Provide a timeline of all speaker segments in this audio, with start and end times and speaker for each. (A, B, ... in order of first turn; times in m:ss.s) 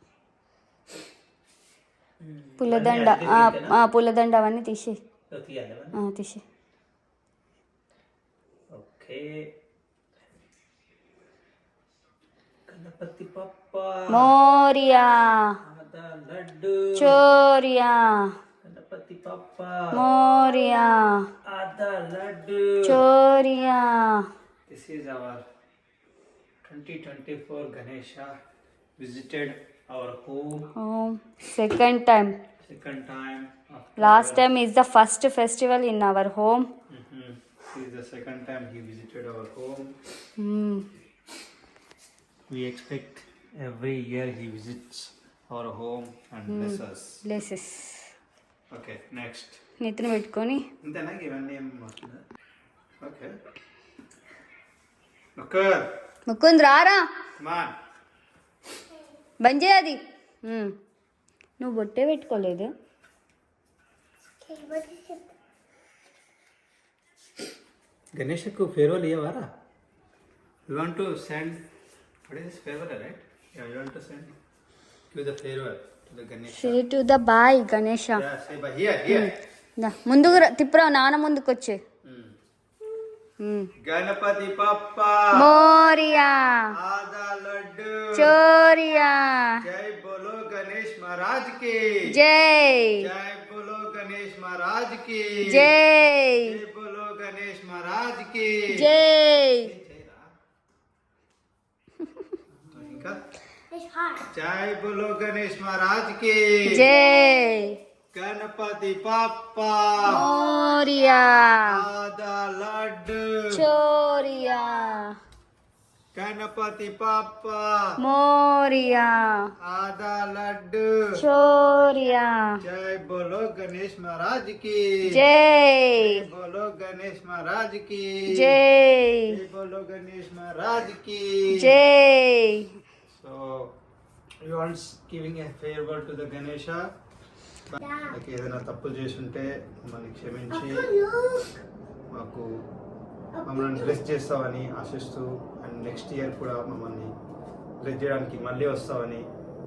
0:02.2-0:03.8 A
0:02.6-0:05.0 B
0:05.3-0:06.0 A
0:05.9-0:06.4 B
0:08.7-0:09.5 A
0:12.7-0:14.3 A
0:14.1-0:15.6 B
0:15.6-0:17.2 A
0:16.9-0:18.3 B
0:18.6-0:20.0 A
0:19.9-0:21.2 B
0:21.4-0:23.0 A
0:22.8-0:24.2 B
0:24.7-0:25.4 A
0:26.6-0:28.3 A
0:29.0-0:30.7 A
0:30.8-0:32.3 B
0:32.6-0:34.4 A
0:34.0-0:36.7 B
0:36.9-0:39.9 A
0:40.4-0:40.8 B
0:42.5-0:47.2 A
0:46.5-0:48.0 B
0:48.7-0:49.6 A
0:49.8-0:50.6 B
0:50.8-0:52.2 A
0:53.0-0:53.3 A
0:55.4-0:55.8 A
0:56.3-0:57.0 B
0:57.4-0:57.7 A
0:59.4-1:00.7 B
1:01.6-1:02.7 B
1:04.4-1:05.3 C
1:08.2-1:09.5 A
1:10.7-1:11.6 A
1:12.3-1:14.3 A
1:15.1-1:16.8 A
1:16.5-1:18.2 B
1:18.1-1:19.3 A
1:19.1-1:21.8 B
1:22.0-1:22.3 A
1:23.4-1:23.7 B
1:23.8-1:25.6 A
1:25.3-1:26.7 B
1:26.7-1:28.3 A
1:28.1-1:29.6 B
1:29.6-1:32.0 A
1:32.1-1:33.0 B
1:33.0-1:35.7 A
1:35.5-1:36.5 B
1:36.4-1:38.9 A
1:38.7-1:39.7 B
1:39.6-1:40.2 A
1:42.6-1:43.2 A
1:43.7-1:44.3 C
1:44.3-1:46.8 A
1:46.6-1:47.7 B
1:46.8-1:47.6 C
1:48.1-1:50.3 A
1:50.1-1:51.7 B
1:50.1-1:51.5 C
1:51.6-1:53.6 A
1:53.5-1:55.1 B
1:56.1-1:57.8 A
1:58.0-1:59.3 B
1:59.6-2:00.9 A
2:01.2-2:02.4 B
2:02.6-2:05.2 A
2:05.1-2:06.2 B
2:05.9-2:08.6 A
2:08.3-2:09.3 B
2:09.3-2:11.7 A
2:11.5-2:12.7 B
2:13.1-2:13.7 A
2:14.4-2:16.8 A
2:17.7-2:20.9 A
2:17.8-2:18.2 C
2:20.5-2:21.6 C
2:22.1-2:22.5 A
2:23.3-2:24.0 C
2:23.4-2:27.1 A
2:27.8-2:29.3 A